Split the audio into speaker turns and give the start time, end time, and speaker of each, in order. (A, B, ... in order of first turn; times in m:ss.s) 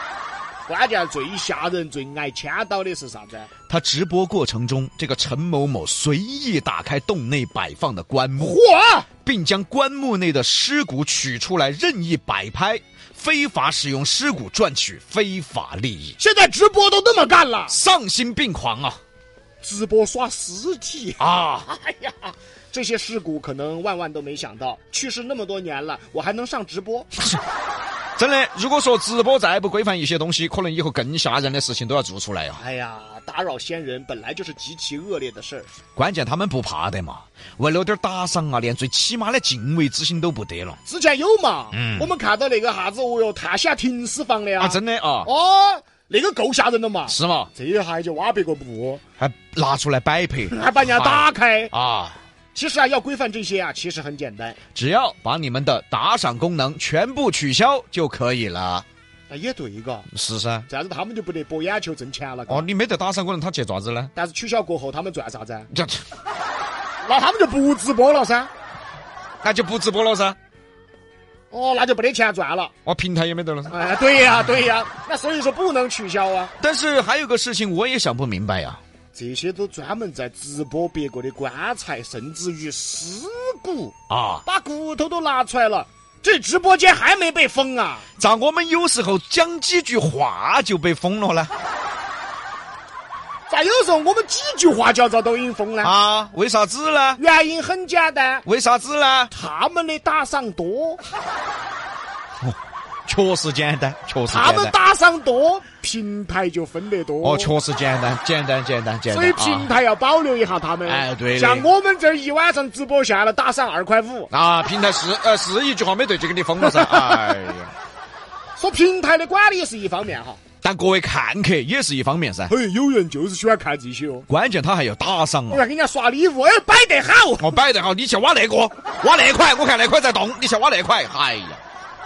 0:00.7-0:03.5 A
0:03.7-0:08.6 B
0:08.4-0:09.1 A
0:09.2-0:16.2 B
0:16.2-0:17.8 A
0:17.7-0:19.0 B
0:19.6-0:21.3 A
0:21.2-0:22.1 B
0:22.7-0:27.1 A
0:28.2-0:32.6 B
0:32.6-0:35.7 A
0:36.0-0:40.8 B
0:40.8-0:49.0 A
0:41.7-0:42.1 B
0:44.6-0:45.3 B
0:47.1-0:47.5 B
0:49.2-0:52.2 B
0:50.5-0:51.7 A
0:52.6-0:54.6 A
0:54.8-0:58.8 B
0:59.3-1:00.1 A
1:00.1-1:00.7 B
1:00.7-1:02.7 A
1:02.5-1:04.1 B
1:04.2-1:05.7 A
1:05.7-1:06.0 B
1:07.0-1:08.5 A
1:09.4-1:10.4 B
1:11.5-1:12.7 A
1:12.8-1:13.8 B
1:13.7-1:16.5 A
1:16.6-1:18.8 B
1:19.1-1:28.0 A
1:24.1-1:24.4 B
1:28.2-1:31.5 B
1:33.5-1:35.9 A
1:35.8-1:37.2 B
1:37.2-1:38.4 A
1:38.5-1:39.3 B
1:39.3-1:41.0 A
1:42.4-1:44.8 B
1:44.3-1:47.5 A
1:47.2-1:49.7 B
1:49.1-1:54.3 A
1:50.8-1:51.7 B
1:54.3-1:57.7 B
1:56.6-1:57.4 A
1:58.6-2:00.4 A
2:00.6-2:02.5 B
2:02.5-2:04.3 A
2:04.3-2:05.6 B
2:05.5-2:07.6 A
2:07.4-2:11.6 B